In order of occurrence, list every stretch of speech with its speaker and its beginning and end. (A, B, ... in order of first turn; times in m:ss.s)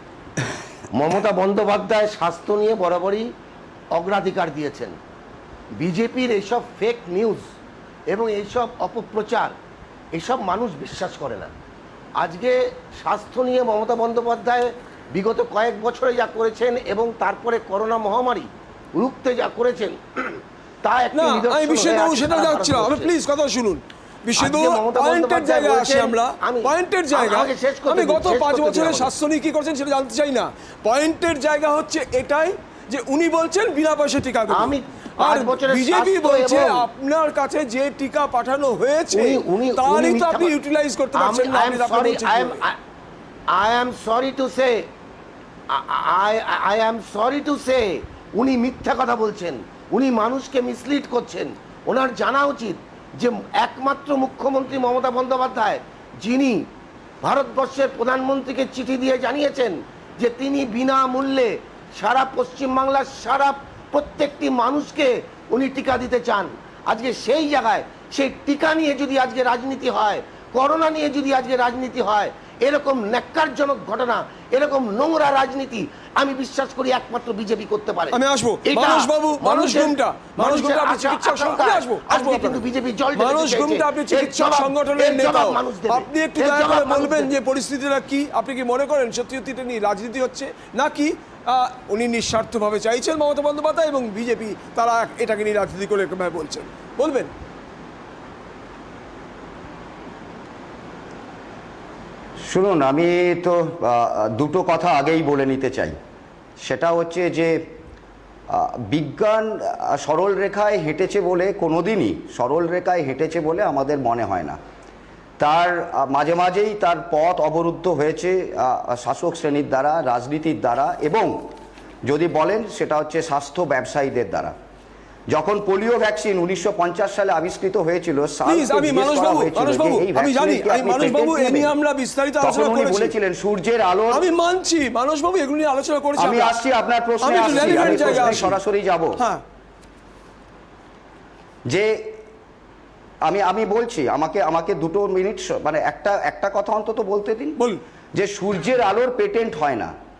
0:00.9-0:03.3 A
0:03.9-0:05.0 A
0:05.8-0:07.4 A
0:08.1-0:09.5 A
0:10.1-0:11.5 A
0:12.2-0:23.1 A
0:21.1-0:42.6 B
0:24.4-0:29.1 A
0:34.5-0:36.9 A
0:39.1-0:40.5 A
0:41.1-0:42.8 A
0:43.5-0:44.8 A
0:45.7-0:56.7 A
0:57.2-1:27.3 A
1:18.1-1:22.6 B
1:23.1-1:37.3 B
1:42.4-1:46.0 C
1:46.6-1:47.6 C
1:48.5-1:54.6 C
1:55.4-2:01.5 C
2:02.0-2:04.5 C
2:05.3-2:11.7 C
2:08.4-2:13.1 B
2:12.4-2:14.3 C
2:14.1-2:16.6 B
2:16.2-2:19.2 C
2:17.2-2:18.6 B
2:19.2-2:19.4 B
2:21.7-2:22.1 C
2:23.2-2:27.6 C
2:28.1-2:29.9 C